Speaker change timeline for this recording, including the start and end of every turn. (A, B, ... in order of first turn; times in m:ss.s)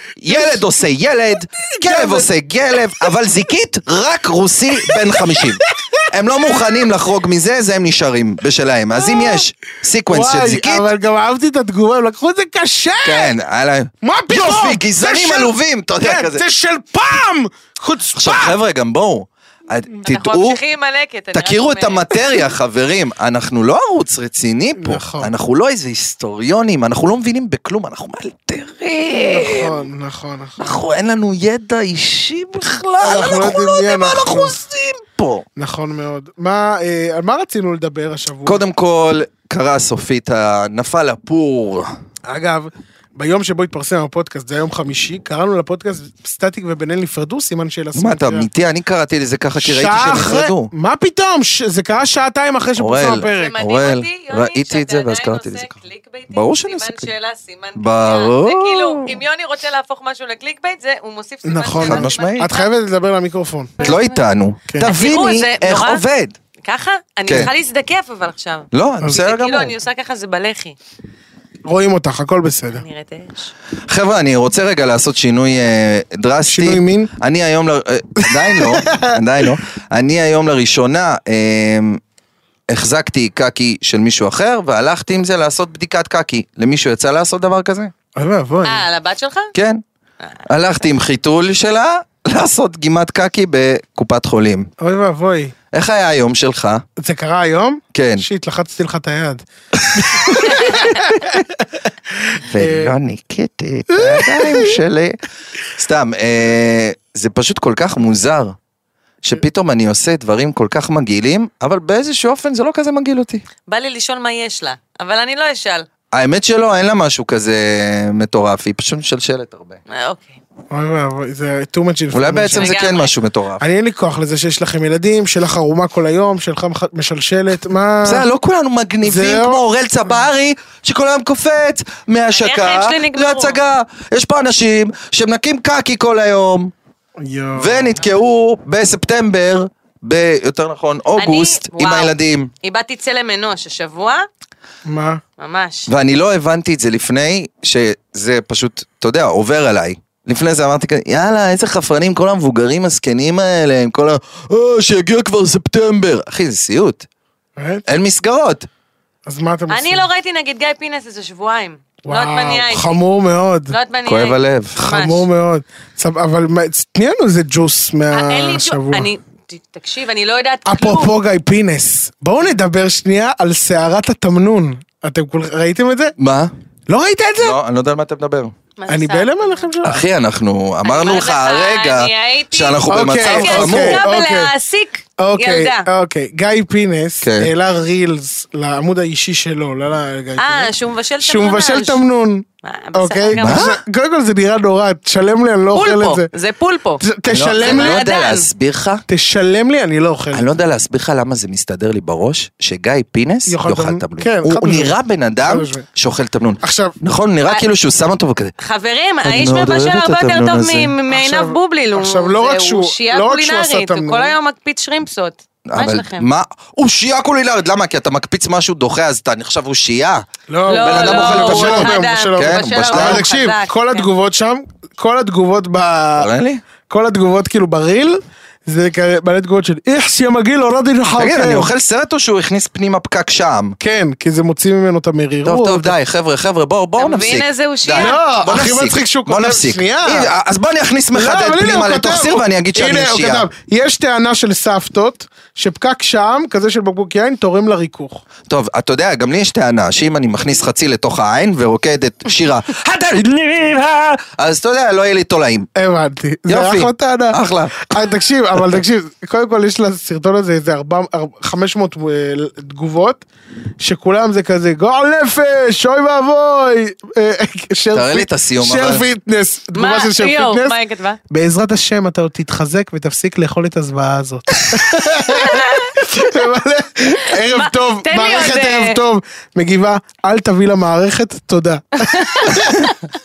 0:00.2-0:10.9 A
0:00.3-0:00.6 B
0:01.8-0:02.3 B
0:04.9-0:06.0 B
0:09.0-0:09.4 B
0:10.1-0:13.3 B
0:13.0-0:16.4 A
0:14.0-0:18.6 B
0:18.2-0:20.6 A
0:20.0-0:22.1 C
0:21.3-0:29.8 A
0:24.8-0:25.3 B
0:29.2-0:30.7 B
0:30.6-0:35.4 A
0:33.0-0:34.6 B
0:35.6-0:38.6 B
0:38.4-0:41.9 A
0:42.3-0:48.5 B
0:48.0-0:50.7 A
0:49.6-0:53.6 B
0:52.8-0:55.8 A
0:53.3-1:02.7 C
0:56.3-0:57.1 A
0:57.8-0:59.2 A
1:01.4-1:03.9 B
1:01.8-1:02.5 A
1:03.8-1:06.4 A
1:03.8-1:04.2 C
1:04.8-1:06.0 C
1:06.6-1:10.8 C
1:07.3-1:07.5 A
1:08.7-1:09.7 A
1:11.7-1:12.8 B
1:12.8-1:13.5 C
1:13.9-1:22.0 A
1:16.5-1:17.1 B
1:18.3-1:19.1 B
1:22.7-1:27.9 A
1:28.2-1:28.8 B
1:28.6-1:29.5 C
1:29.5-1:29.8 A
1:30.5-1:34.7 A
1:34.8-1:35.5 B
1:35.7-1:36.8 A
1:37.0-1:39.4 B
1:37.9-1:38.3 A
1:39.9-1:41.4 A
1:39.9-1:42.9 B
1:42.5-1:45.2 A
1:43.9-1:44.8 B
1:45.8-1:48.6 A
1:49.2-1:53.4 A
1:53.7-1:55.9 C
1:56.1-1:59.8 A
1:59.9-2:00.4 C
2:00.7-2:02.7 B
2:02.1-2:03.6 A
2:02.5-2:03.1 C
2:03.6-2:08.2 B
2:08.0-2:16.7 A
2:09.0-2:09.6 B
2:12.3-2:13.6 C
2:17.2-2:18.0 B
2:17.6-2:22.5 A
2:21.2-2:24.3 C
2:24.8-2:25.2 B
2:25.4-2:25.9 C
2:25.9-2:37.1 A
2:37.6-2:37.9 B
2:37.9-2:38.7 A
2:39.3-2:40.1 B
2:39.7-2:43.0 C
2:42.0-2:43.7 B
2:43.7-2:45.3 C
2:44.1-2:44.8 A
2:44.8-2:49.1 B
2:48.1-2:51.1 C
2:50.7-2:56.1 B
2:56.2-2:56.5 A
2:56.9-2:57.6 B
2:57.4-2:58.6 A
2:58.8-2:59.7 C
2:58.9-3:00.0 B
2:59.8-3:04.0 A
3:00.8-3:05.9 C
3:02.9-3:04.5 B
3:05.2-3:16.3 B
3:07.2-3:07.5 A
3:10.4-3:12.0 C
3:12.6-3:13.8 C
3:13.3-3:13.8 A
3:15.7-3:17.0 C
3:17.0-3:18.0 B
3:17.3-3:19.0 A
3:17.6-3:18.5 C
3:19.1-3:20.5 B
3:20.3-3:28.5 A
3:23.5-3:24.9 B
3:25.4-3:25.9 B
3:26.6-3:26.9 B
3:28.6-3:36.3 C
3:29.2-3:30.9 A
3:31.1-3:34.4 B
3:35.7-3:43.3 A
3:40.5-3:46.3 B
3:40.7-3:44.1 C
3:46.2-3:46.6 A
3:46.9-3:51.7 B
3:51.2-3:53.8 A
3:53.8-3:55.9 B
3:55.4-4:03.5 A
3:57.0-3:58.2 C
3:58.0-4:00.3 B
4:01.1-4:08.2 B
4:08.5-4:15.7 A
4:15.8-4:23.3 B
4:16.5-4:17.9 A
4:23.8-4:30.8 B
4:27.9-4:29.0 A
4:29.8-4:31.2 C
4:31.3-4:42.8 B
4:35.3-4:36.0 C
4:37.4-4:39.0 C
4:42.0-4:43.0 C